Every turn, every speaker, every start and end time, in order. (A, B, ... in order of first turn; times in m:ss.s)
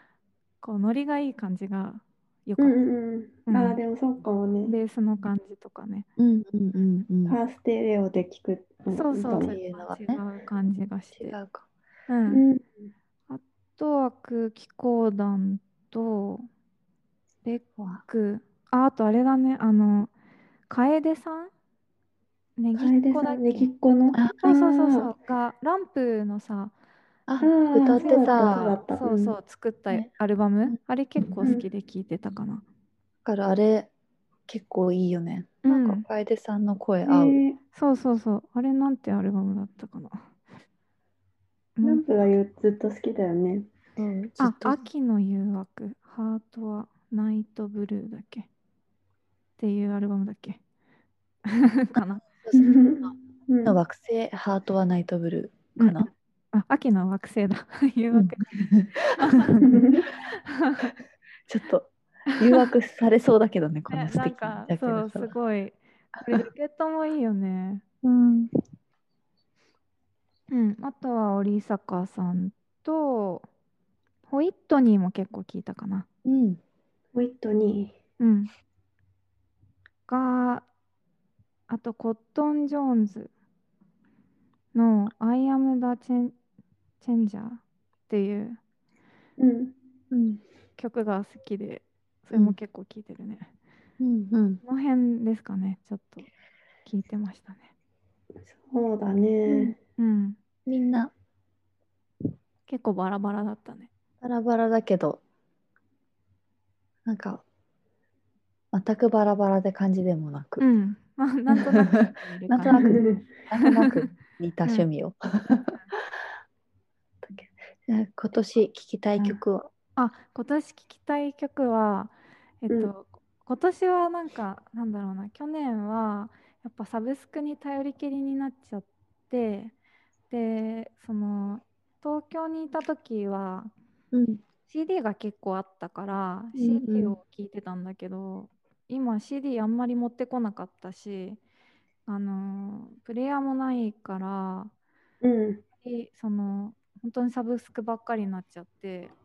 0:00.6-0:02.8 A
0:02.6-0:04.8 B
0:03.5-0:03.8 A
0:04.7-0:06.1 A
0:06.2-0:07.4 C
0:07.3-0:09.6 B
0:08.9-0:11.4 A
0:09.3-0:10.2 C
0:11.1-0:11.7 C
0:12.1-0:12.4 A
0:12.3-0:12.9 B
0:13.3-0:16.5 A
0:17.4-0:20.1 A
0:17.8-0:18.0 C
0:20.7-0:21.5 A
0:22.6-0:23.7 A
0:22.8-0:25.1 B
0:24.1-0:24.4 C
0:24.4-0:26.7 A
0:27.3-0:28.8 C
0:27.4-0:29.4 B
0:28.0-0:32.6 A
0:33.2-0:33.9 C
0:34.5-0:37.4 C
0:35.6-0:36.0 A
0:37.0-0:37.6 B
0:37.7-0:40.2 A
0:41.8-0:42.0 A
0:41.8-0:43.7 B
0:44.0-0:44.8 C
0:44.4-0:48.5 A
0:49.6-0:50.6 A
0:51.5-0:52.2 A
0:52.0-0:53.1 C
0:52.5-0:53.8 B
0:53.6-0:56.1 C
0:56.5-1:00.9 A
0:58.1-0:59.9 C
0:59.6-1:00.0 B
1:01.5-1:05.3 C
1:02.3-1:02.7 A
1:03.9-1:07.8 A
1:06.2-1:06.5 C
1:08.0-1:08.5 C
1:10.5-1:13.5 A
1:14.3-1:16.1 A
1:16.2-1:16.6 C
1:17.2-1:18.0 B
1:18.2-1:18.5 A
1:20.1-1:20.7 A
1:21.7-1:23.3 A
1:24.7-1:26.3 A
1:27.0-1:28.6 A
1:29.4-1:29.8 B
1:30.1-1:30.4 C
1:30.8-1:33.5 A
1:34.0-1:34.6 C
1:34.6-1:36.3 A
1:36.8-1:37.7 A
1:38.4-1:39.8 B
1:39.5-1:39.8 C
1:40.0-1:40.4 A
1:40.7-1:41.1 C
1:42.7-1:43.9 A
1:44.2-1:45.2 C
1:47.1-1:47.4 C
1:48.7-1:50.6 C
1:50.6-1:52.9 A
1:51.5-1:56.0 C
1:52.7-1:53.2 B
1:53.6-1:54.1 A
1:57.2-1:59.7 C
2:00.0-2:09.7 A
2:10.3-2:13.7 A
2:14.1-2:14.4 C
2:14.7-2:21.4 A
2:16.6-2:17.2 C
2:22.1-2:24.7 A
2:25.2-2:25.6 B
2:25.8-2:29.1 A